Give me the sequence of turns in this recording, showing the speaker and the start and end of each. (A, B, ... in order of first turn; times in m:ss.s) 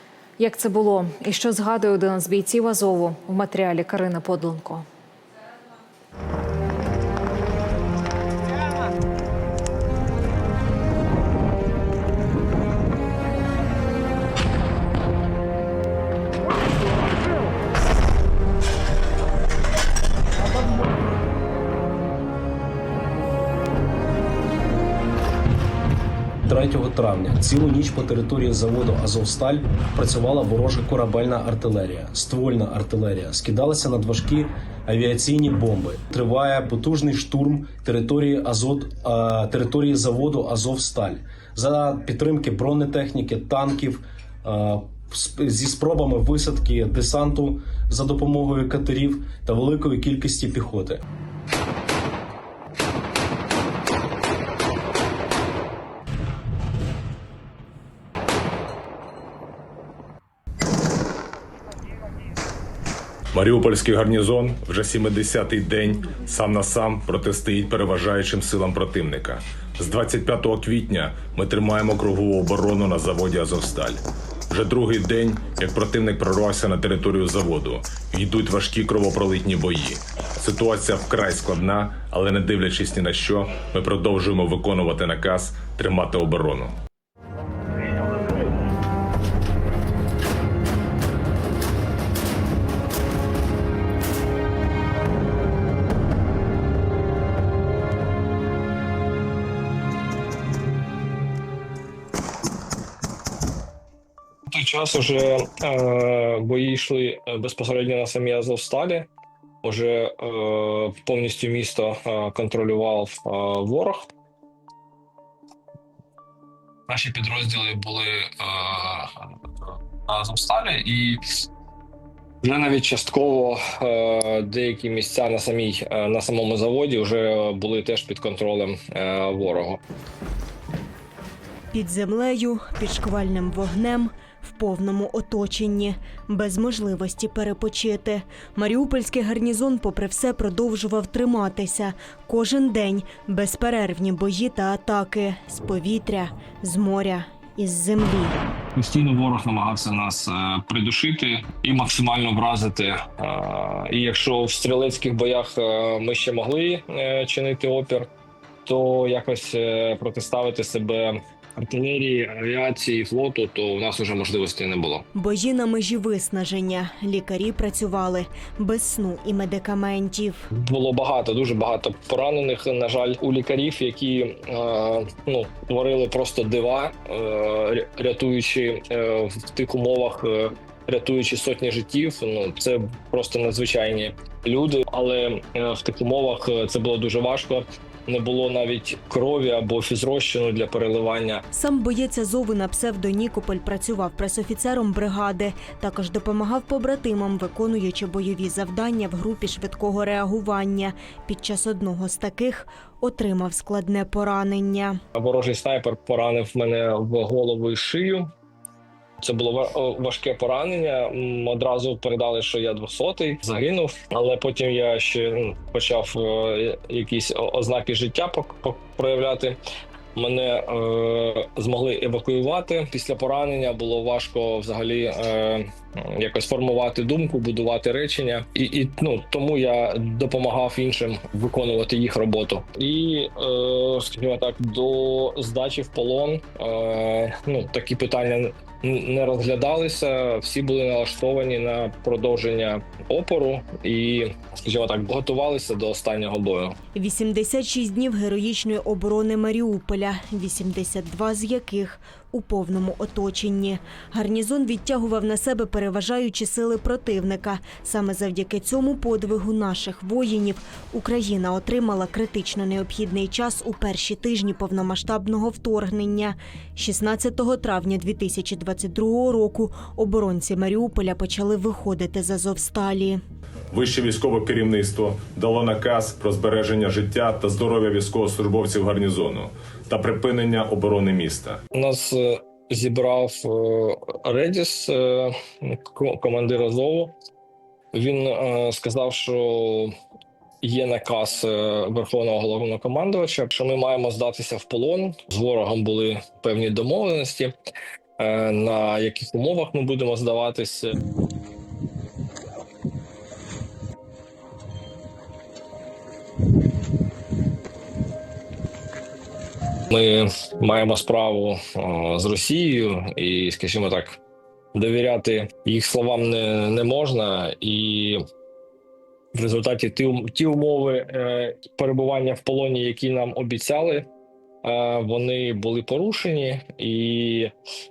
0:00.4-0:04.8 A
0:26.5-0:51.0 B
1:03.3-1:26.7 C
1:44.5-1:49.1 D
1:49.6-1:54.1 D
1:56.9-2:01.4 D
2:02.4-2:09.8 D
2:11.7-2:28.4 E
2:28.7-2:38.1 D
2:38.6-2:45.0 D
2:45.1-2:50.4 E
2:50.5-3:11.4 D
3:11.5-3:25.0 E
3:25.2-3:28.3 D
3:29.2-3:39.6 D
3:40.1-4:06.8 D
4:06.9-4:33.2 E
4:33.7-4:41.6 C
4:41.7-4:47.1 D
4:47.9-4:49.9 D
4:50.6-4:57.5 D
4:58.2-5:01.0 D
5:09.9-5:14.2 D
5:14.7-5:18.2 D
5:19.3-5:24.1 D
5:24.6-5:27.5 D